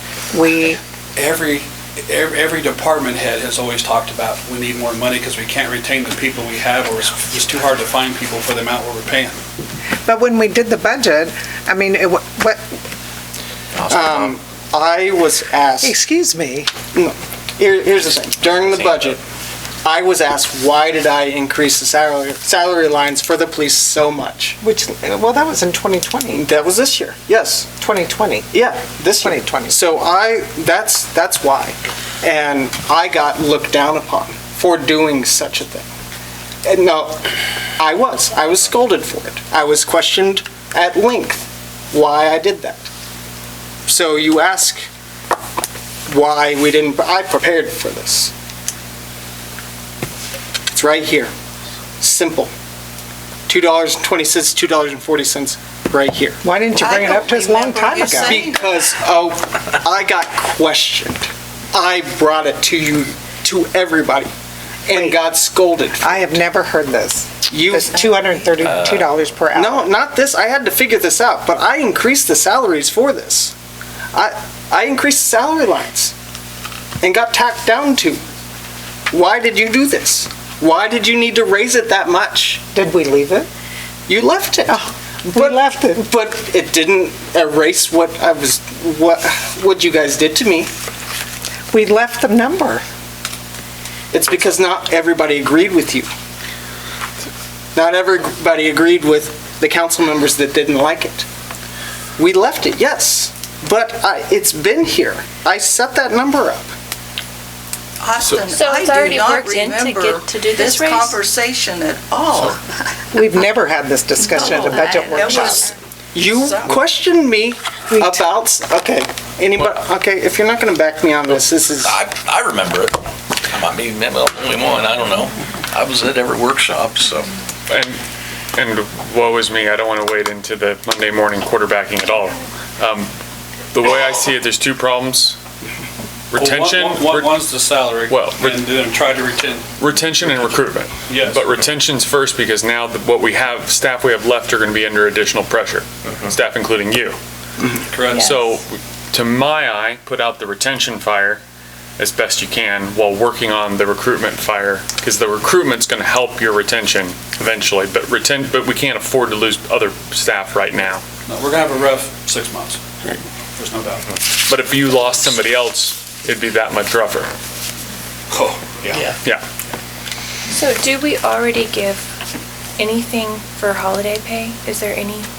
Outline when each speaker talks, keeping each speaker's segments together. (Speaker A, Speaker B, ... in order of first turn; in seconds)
Speaker A: 0.3-0.8, 10.0-12.6, 15.8-16.8, 24.6-26.5, 27.8-28.5, 29.2-29.8, 56.4-58.4, 64.9-65.2, 66.0-69.9, 82.7-83.5, 85.2-86.1, 91.7-92.8, 113.1-115.7, 118.0-118.3
Speaker B: 1.1-9.4, 136.3-139.7, 141.1-141.4, 147.9-148.4, 161.2-162.8, 163.5-164.1, 168.3-169.1
Speaker C: 13.8-14.3, 18.1-19.1, 68.6-69.3, 121.4-127.4
Speaker D: 13.8-16.0, 16.9-19.2, 19.8-24.6, 26.3-27.7, 28.5-35.9, 36.6-42.9, 43.9-44.9, 46.1-48.3, 50.7-51.3, 52.0-52.5, 53.5-56.4, 58.2-64.3, 64.8-66.4, 67.4-68.0, 69.5-73.5, 74.1-76.1, 77.0-78.2, 79.1-82.7, 84.1-90.7, 94.1-96.1, 97.7-101.2, 102.2-106.7, 116.1-122.0
Speaker E: 56.7-58.9, 108.0-113.3, 114.2-116.8
Speaker F: 108.5-111.2, 170.5-172.1, 172.8-175.3
Speaker G: 127.7-128.0, 128.5-133.1, 133.7-135.4, 136.3-137.4, 138.1-138.6, 139.8-147.2, 148.1-151.4, 152.0-161.0, 164.3-167.3